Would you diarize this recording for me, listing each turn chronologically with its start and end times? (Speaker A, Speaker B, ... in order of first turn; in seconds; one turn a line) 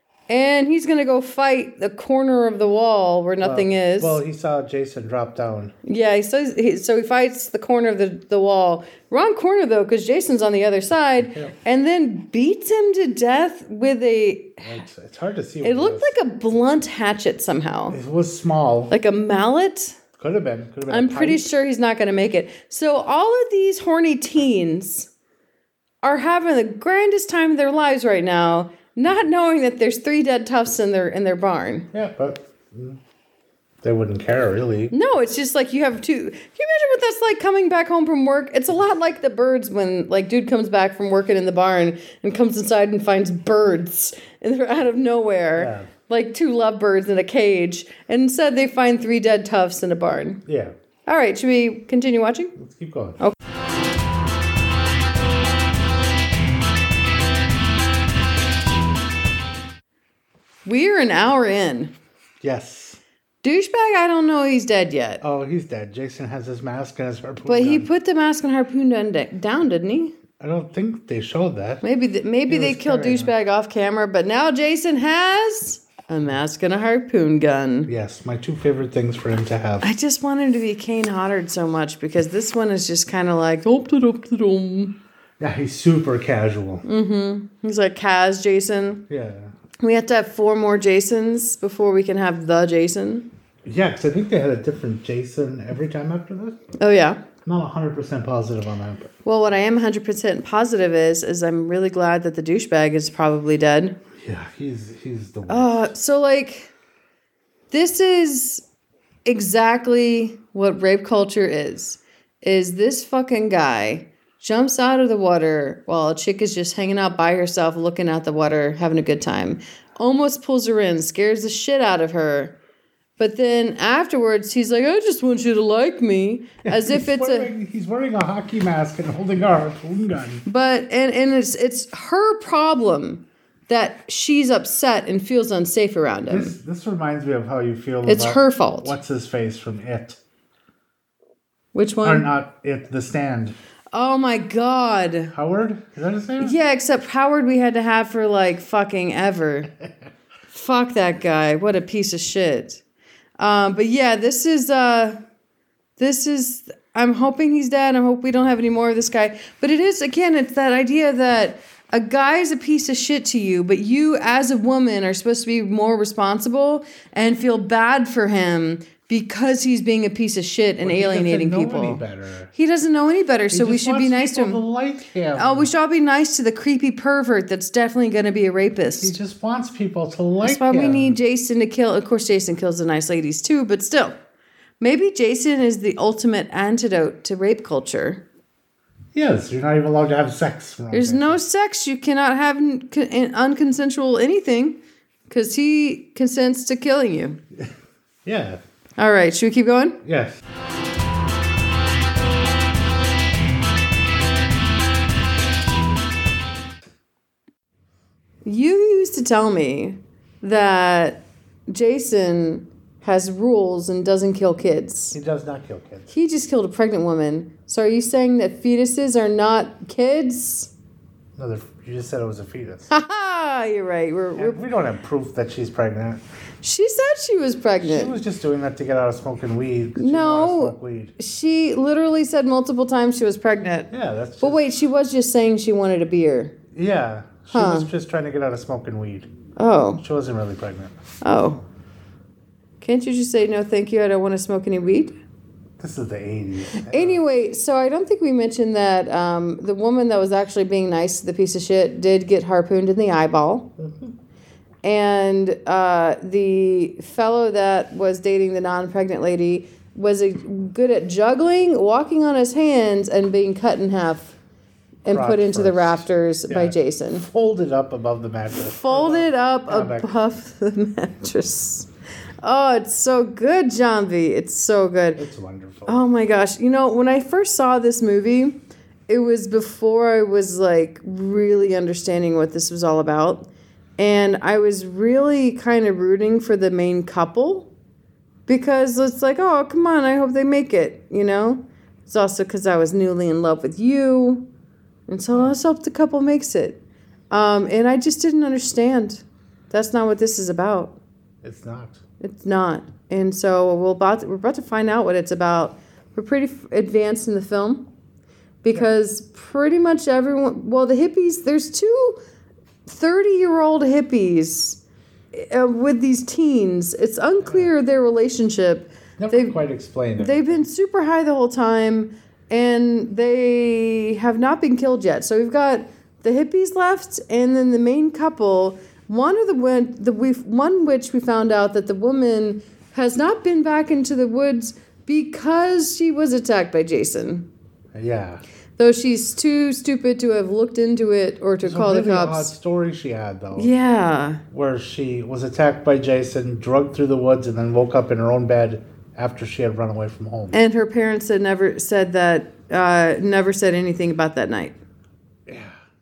Speaker A: 0.3-4.2
Speaker B: 3.4-5.8
Speaker A: 5.8-14.8
Speaker B: 11.2-11.6
Speaker B: 14.6-16.1
Speaker A: 15.6-18.0
Speaker B: 17.9-18.9
Speaker A: 18.9-20.0
Speaker B: 20.2-21.5
Speaker A: 20.9-25.1
Speaker A: 26.0-31.9
Speaker B: 31.9-33.0
Speaker B: 33.8-34.9
Speaker A: 34.9-50.4
Speaker B: 45.6-45.9
Speaker B: 50.5-50.7
Speaker A: 51.1-52.5
Speaker B: 52.6-53.2
Speaker A: 60.7-61.9
Speaker B: 62.4-63.0
Speaker A: 63.4-65.2
Speaker B: 65.2-67.9
Speaker A: 67.5-70.1
Speaker B: 70.4-71.8
Speaker A: 71.8-77.9
Speaker B: 72.5-73.3
Speaker B: 77.9-79.9
Speaker A: 79.8-85.0
Speaker B: 85.4-86.8
Speaker A: 86.8-89.0
Speaker B: 89.1-89.5
Speaker A: 89.8-93.3
Speaker B: 93.7-96.8
Speaker A: 96.8-97.2
Speaker B: 97.4-99.1
Speaker A: 99.2-104.0
Speaker B: 104.2-105.9
Speaker A: 105.5-106.7
Speaker A: 107.7-108.6
Speaker A: 109.2-122.5
Speaker A: 123.2-127.5
Speaker B: 126.7-130.4
Speaker A: 130.5-136.5
Speaker B: 136.3-140.2
Speaker A: 138.1-138.9
Speaker A: 141.7-142.3
Speaker B: 142.0-143.6
Speaker A: 143.9-145.3
Speaker B: 145.3-146.6
Speaker A: 146.4-149.7
Speaker A: 150.5-152.8
Speaker A: 153.4-155.2
Speaker A: 156.0-172.0
Speaker B: 170.8-172.5
Speaker A: 172.5-174.6
Speaker B: 173.5-175.7
Speaker A: 175.4-179.1
Speaker B: 179.0-181.2
Speaker A: 180.4-184.2
Speaker A: 184.8-188.2
Speaker B: 189.1-191.4
Speaker A: 190.9-194.8
Speaker A: 195.3-197.4
Speaker B: 198.2-198.6
Speaker A: 199.0-200.0
Speaker B: 200.0-200.4
Speaker A: 208.4-215.2
Speaker B: 215.1-216.1
Speaker A: 216.1-220.7
Speaker B: 221.4-222.9
Speaker A: 222.9-224.6
Speaker B: 224.3-226.2
Speaker A: 226.6-228.2
Speaker B: 227.8-231.2
Speaker A: 230.0-236.6
Speaker B: 233.9-234.7
Speaker B: 236.7-239.3
Speaker A: 237.5-237.9
Speaker A: 239.6-240.0
Speaker B: 240.0-241.0
Speaker A: 241.2-241.6
Speaker A: 242.8-245.2
Speaker B: 245.8-247.2
Speaker A: 246.8-253.7
Speaker B: 253.8-254.1
Speaker A: 254.8-264.4
Speaker A: 265.1-267.2
Speaker B: 265.1-270.1
Speaker A: 268.8-271.9
Speaker A: 272.4-275.2
Speaker B: 275.2-276.0
Speaker A: 275.9-278.6
Speaker A: 279.1-287.7
Speaker A: 288.5-294.5
Speaker A: 295.1-296.8
Speaker A: 297.3-301.0
Speaker B: 301.4-302.0
Speaker A: 302.2-307.9
Speaker A: 308.6-312.2
Speaker A: 312.9-314.8
Speaker A: 315.3-319.6
Speaker B: 317.4-317.7
Speaker B: 319.2-320.6
Speaker A: 320.2-337.5
Speaker B: 337.9-338.4
Speaker A: 338.8-342.6
Speaker B: 341.6-343.7
Speaker A: 343.6-344.4
Speaker B: 344.5-350.6
Speaker A: 350.5-354.8
Speaker B: 355.5-355.8